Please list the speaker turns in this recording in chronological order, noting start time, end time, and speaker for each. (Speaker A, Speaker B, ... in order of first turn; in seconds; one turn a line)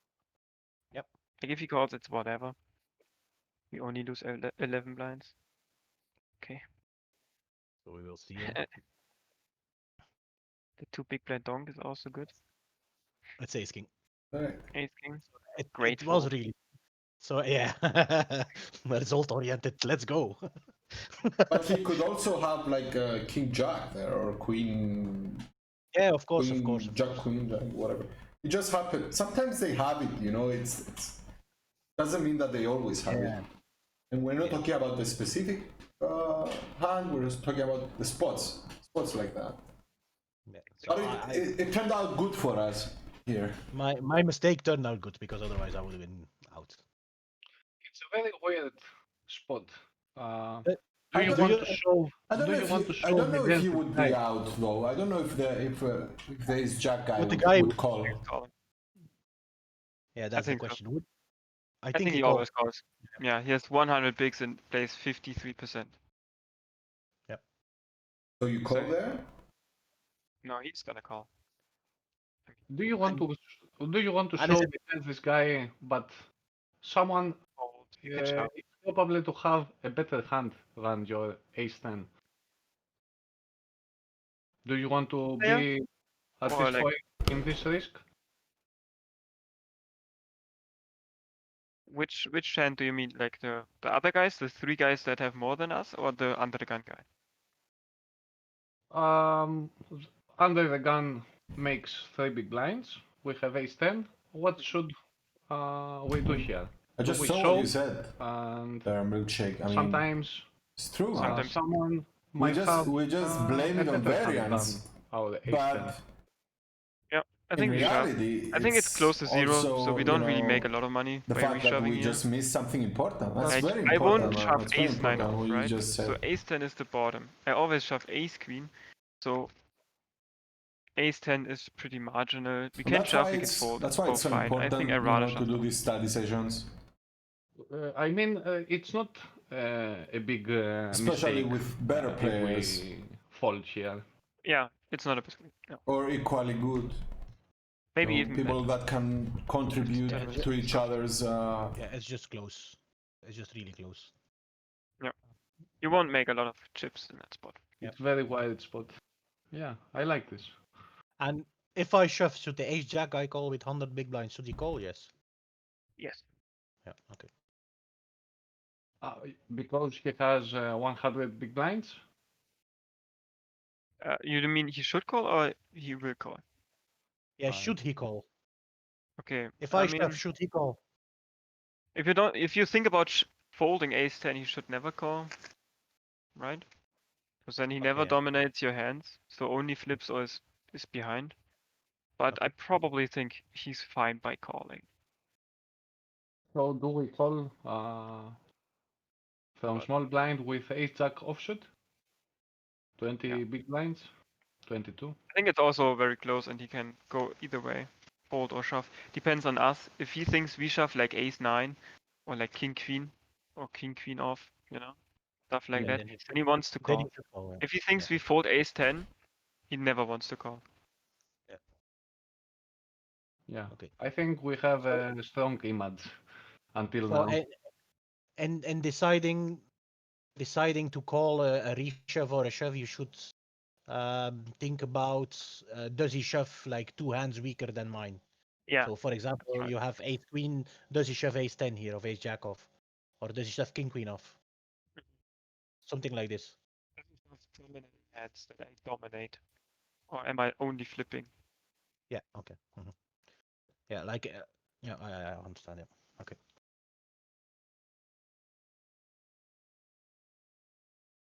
Speaker A: 1.4-2.5
Speaker A: 3.7-5.3
Speaker B: 7.8-8.8
Speaker A: 10.8-12.3
Speaker B: 13.4-13.9
Speaker C: 14.3-14.7
Speaker A: 14.7-16.3
Speaker B: 15.4-16.6
Speaker B: 17.2-20.4
Speaker B: 21.0-21.7
Speaker C: 21.5-25.4
Speaker B: 25.9-27.3
Speaker C: 26.4-31.2
Speaker C: 32.0-33.4
Speaker B: 33.0-33.5
Speaker C: 34.1-39.6
Speaker B: 40.5-41.5
Speaker C: 40.8-43.6
Speaker B: 43.7-46.8
Speaker D: 47.8-54.2
Speaker B: 50.6-51.8
Speaker C: 52.3-58.2
Speaker B: 57.1-57.7
Speaker A: 58.0-58.5
Speaker B: 60.1-61.1
Speaker A: 60.3-60.8
Speaker B: 61.8-62.5
Speaker A: 61.9-65.9
Speaker C: 68.4-69.2
Speaker A: 68.6-69.0
Speaker A: 70.4-71.3
Speaker D: 72.7-76.1
Speaker B: 74.3-74.7
Speaker D: 76.8-77.4
Speaker A: 77.6-78.5
Speaker D: 78.0-82.1
Speaker D: 84.6-85.8
Speaker A: 85.4-85.7
Speaker D: 86.4-88.0
Speaker A: 86.5-86.9
Speaker A: 91.9-97.0
Speaker D: 98.9-104.9
Speaker D: 105.5-108.9
Speaker C: 106.2-108.2
Speaker C: 108.8-110.1
Speaker D: 109.7-110.5
Speaker C: 110.8-111.5
Speaker A: 111.1-111.6
Speaker D: 111.1-116.0
Speaker C: 112.4-114.9
Speaker C: 115.5-116.0
Speaker A: 117.1-122.2
Speaker C: 117.5-126.2
Speaker D: 117.6-118.0
Speaker A: 123.4-129.5
Speaker A: 130.9-135.7
Speaker C: 132.8-136.7
Speaker D: 137.6-144.0
Speaker C: 140.9-142.8
Speaker A: 144.4-145.8
Speaker C: 145.8-147.0
Speaker A: 147.9-148.6
Speaker C: 148.0-151.8
Speaker A: 149.8-150.9
Speaker B: 150.3-150.6
Speaker B: 151.7-154.1
Speaker A: 155.8-157.6
Speaker D: 157.8-158.9
Speaker D: 159.5-160.6
Speaker B: 161.2-165.1
Speaker A: 166.0-166.2
Speaker B: 166.8-167.3
Speaker D: 169.0-172.0
Speaker A: 174.0-176.4
Speaker B: 177.4-178.2
Speaker D: 177.4-177.8
Speaker A: 179.2-180.2
Speaker B: 179.6-180.8
Speaker A: 181.9-185.3
Speaker A: 186.3-186.6
Speaker A: 187.4-191.3
Speaker B: 187.8-188.2
Speaker A: 192.2-194.8
Speaker D: 196.5-198.4
Speaker D: 199.6-201.7
Speaker D: 203.0-204.1
Speaker D: 204.7-205.2
Speaker A: 205.3-214.9
Speaker A: 215.5-219.1
Speaker B: 215.7-218.2
Speaker A: 219.7-220.6
Speaker D: 223.5-226.1
Speaker B: 223.7-223.9
Speaker D: 226.7-227.4
Speaker B: 227.1-227.6
Speaker B: 228.4-229.7
Speaker B: 230.4-233.3
Speaker B: 233.9-238.2
Speaker A: 238.7-239.7
Speaker B: 238.8-244.4
Speaker B: 245.8-246.6
Speaker A: 247.0-249.4
Speaker A: 250.1-251.3
Speaker B: 252.1-253.0
Speaker B: 253.9-256.4